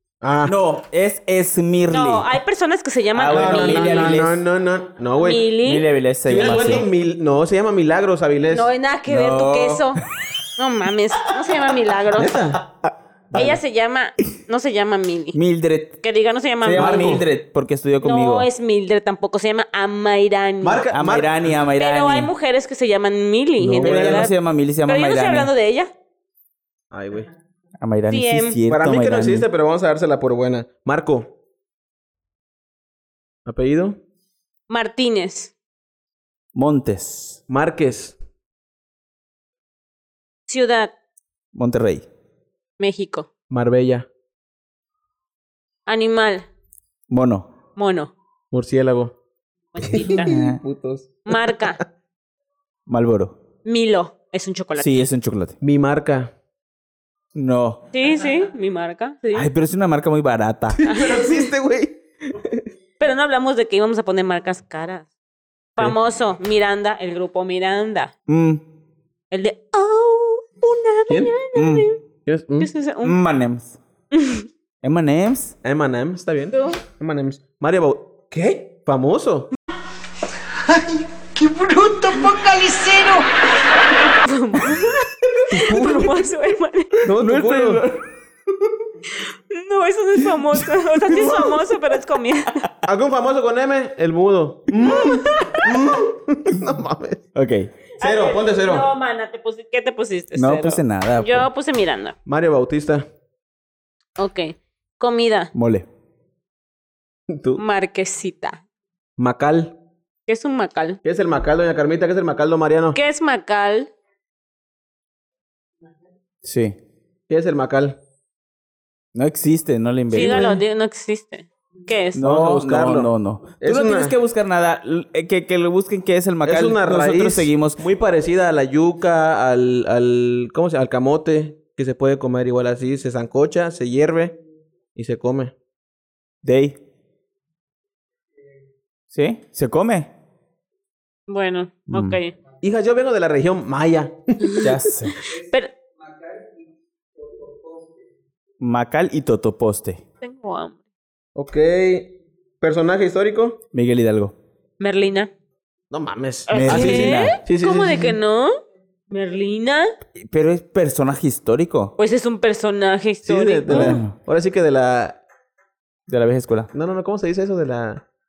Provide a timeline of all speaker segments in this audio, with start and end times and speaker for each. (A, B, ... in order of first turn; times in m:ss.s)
0:00.2-0:00.5 A
0:00.4-0:02.3 B
0:01.9-0:04.2 C
0:03.1-0:04.4 B
0:03.2-0:05.4 A
0:05.2-0:05.9 C
0:05.6-0:06.9 B
0:06.2-0:08.7 A
0:08.5-0:10.0 C
0:09.1-0:10.0 B
0:10.6-0:12.5 C
0:12.1-0:12.7 A
0:13.3-0:15.4 C
0:15.3-0:16.0 B
0:16.0-0:17.2 C
0:16.6-0:18.5 B
0:16.8-0:17.2 A
0:18.0-0:20.9 C
0:20.6-0:21.4 A
0:20.9-0:22.3 B
0:21.7-0:24.3 C
0:23.6-0:24.3 A
0:23.8-0:25.5 B
0:24.8-0:25.9 C
0:26.9-0:27.3 A
0:27.8-0:29.5 B
0:28.1-0:28.6 C
0:28.7-0:31.3 A
0:33.4-0:34.0 A
0:34.7-0:35.5 C
0:36.5-0:37.4 B
0:37.5-0:38.2 A
0:40.5-0:40.9 C
0:41.5-0:42.1 B
0:42.8-0:43.3 C
0:43.5-0:44.1 A
0:45.9-0:46.5 C
0:47.1-0:47.5 B
0:47.8-0:48.1 C
0:48.5-0:49.1 A
0:49.7-0:50.3 C
0:49.8-0:51.7 A
0:50.2-0:50.6 B
0:51.2-0:51.8 C
0:52.9-0:53.4 B
0:53.6-0:55.0 C
0:54.8-0:55.6 B
0:55.6-0:56.3 A
0:57.3-0:57.8 B
0:57.9-0:59.5 C
0:59.3-1:00.8 B
1:00.8-1:02.6 A
1:00.8-1:01.5 C
1:03.0-1:05.1 C
1:05.8-1:08.1 C
1:08.3-1:08.6 B
1:09.3-1:12.0 C
1:11.1-1:11.3 A
1:11.5-1:11.9 B
1:12.2-1:12.7 A
1:12.6-1:13.2 C
1:13.0-1:13.8 B
1:14.1-1:14.5 C
1:14.8-1:15.5 B
1:15.6-1:19.5 A
1:16.5-1:16.8 C
1:20.6-1:23.3 D
1:24.2-1:27.0 C
1:25.5-1:26.2 A
1:27.0-1:27.8 A
1:27.1-1:28.0 B
1:29.2-1:32.6 C
1:32.8-1:37.2 A
1:34.9-1:35.7 C
1:37.3-1:37.7 B
1:38.0-1:42.2 C
1:38.0-1:38.9 A
1:40.4-1:41.5 B
1:42.2-1:43.0 A
1:44.2-1:45.5 C
1:45.5-1:45.9 B
1:47.3-1:47.6 A
1:47.6-1:48.6 C
1:49.2-1:49.8 A
1:50.3-1:51.0 C
1:51.0-1:53.0 A
1:52.9-1:53.9 C
1:56.4-1:56.8 B
1:57.3-1:58.0 A
1:59.1-2:00.5 B
2:00.1-2:02.2 C
2:00.1-2:00.6 A
2:02.1-2:07.8 B
2:02.2-2:04.1 A
2:06.4-2:14.4 A
2:14.9-2:15.5 A
2:16.4-2:16.8 B
2:19.1-2:20.1 B
2:21.3-2:22.4 C
2:21.9-2:22.2 B
2:22.6-2:24.7 A
2:24.6-2:25.2 B
2:25.2-2:25.7 C
2:28.6-2:30.0 B
2:30.2-2:30.8 C
2:31.3-2:33.6 A
2:33.7-2:34.3 B
2:34.8-2:35.3 C
2:35.9-2:38.2 A
2:36.5-2:38.6 C
2:36.5-2:37.4 B
2:39.1-2:39.9 C
2:40.2-2:41.9 B
2:42.0-2:44.0 C
2:43.2-2:45.2 A
2:43.7-2:44.1 B
2:46.1-2:46.7 B
2:46.7-2:48.0 A